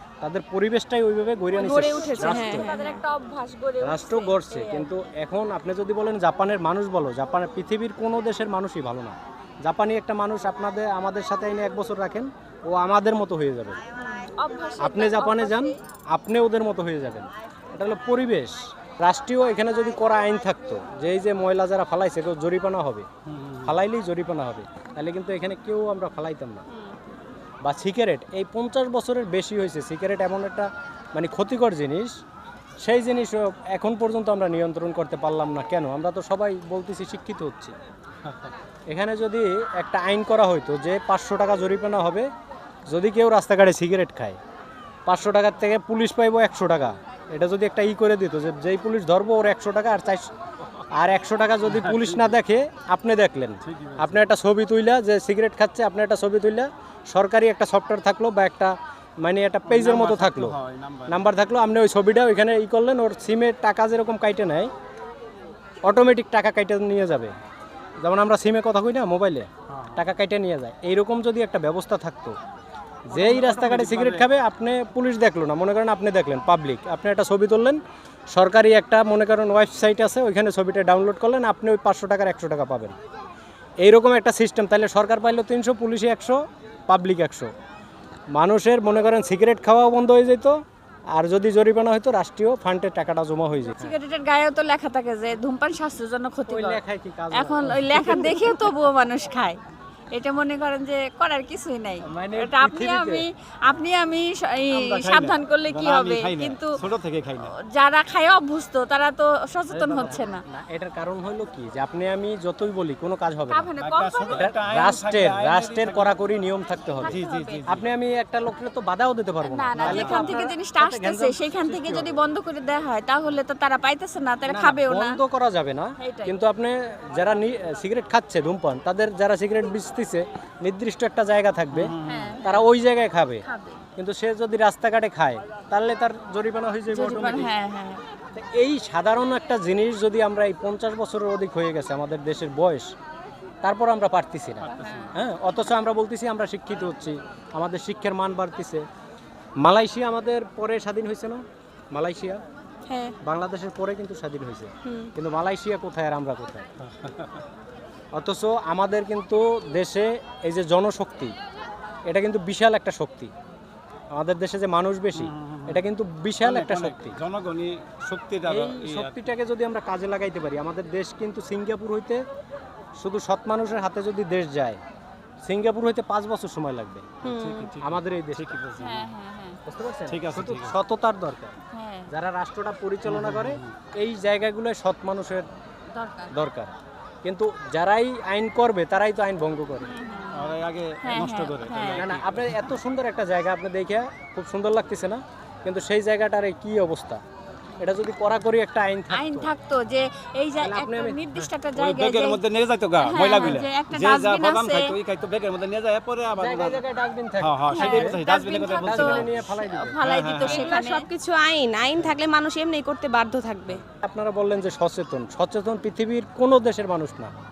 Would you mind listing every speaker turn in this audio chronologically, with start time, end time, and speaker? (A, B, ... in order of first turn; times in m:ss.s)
0:00.2-0:02.7 A
0:01.5-0:04.9 B
0:01.6-0:03.0 C
0:03.8-0:13.8 A
0:14.3-0:15.8 B
0:14.8-0:23.1 A
0:23.2-0:23.8 D
0:23.6-0:26.6 A
0:27.6-0:32.1 A
0:32.8-0:37.7 A
0:38.9-0:42.3 A
0:42.9-0:44.4 A
0:45.0-0:50.3 A
0:50.9-1:00.6 A
0:51.6-0:52.3 D
0:53.6-0:54.2 D
0:59.6-1:01.3 D
1:01.1-1:04.7 A
1:05.8-1:07.3 A
1:08.0-1:12.4 A
1:09.7-1:10.0 D
1:13.1-1:17.8 A
1:13.1-1:14.3 D
1:18.3-1:23.0 A
1:23.8-1:27.5 A
1:28.3-1:30.6 A
1:31.1-1:34.0 A
1:33.7-1:36.8 B
1:36.4-1:38.7 A
1:37.3-1:39.6 B
1:40.1-1:46.8 B
1:42.0-1:43.2 A
1:44.7-1:47.5 D
1:47.4-1:50.4 B
1:49.7-1:50.2 D
1:50.5-1:53.7 A
1:53.5-1:54.5 B
1:53.8-1:56.2 D
1:54.3-1:57.2 A
1:57.0-1:57.7 B
1:57.0-1:57.9 D
1:57.7-2:02.2 A
1:59.4-2:05.2 B
1:59.7-2:00.4 D
2:04.5-2:13.4 A
2:06.0-2:06.3 B
2:11.7-2:12.4 D
2:12.0-2:12.6 B
2:13.4-2:13.8 B
2:14.0-2:17.5 A
2:16.9-2:18.0 B
2:18.3-2:22.9 A
2:23.6-2:28.8 A
2:24.6-2:25.2 D
2:24.7-2:25.1 B
2:29.6-2:32.4 A
2:32.9-2:33.1 C
2:33.2-2:36.7 A
2:34.8-2:35.1 C
2:36.8-2:37.4 D
2:38.1-2:41.3 A
2:42.1-2:43.3 A
2:44.1-2:47.2 A
2:45.1-2:45.9 D
2:46.4-2:49.2 D
2:48.4-2:52.2 A
2:53.0-2:54.8 A
2:55.4-2:57.2 A
2:57.2-2:57.7 C
2:57.2-2:59.1 D
2:57.8-2:58.6 A
2:58.8-2:59.6 B
2:59.6-3:01.6 A
3:00.1-3:00.8 D
3:01.7-3:02.1 B
3:02.1-3:05.5 A
3:03.0-3:03.8 D
3:05.9-3:06.3 B
3:06.3-3:09.9 A
3:09.8-3:12.1 B
3:10.3-3:12.6 D
3:11.9-3:17.2 A
3:17.8-3:19.5 A
3:19.1-3:22.4 B
3:20.6-3:21.5 A
3:21.7-3:26.8 D
3:23.0-3:25.0 B
3:26.4-3:28.1 A
3:27.4-3:29.4 D
3:27.7-3:31.0 B
3:28.8-3:30.0 A
3:30.0-3:30.6 D
3:30.4-3:33.8 C
3:33.8-3:37.3 A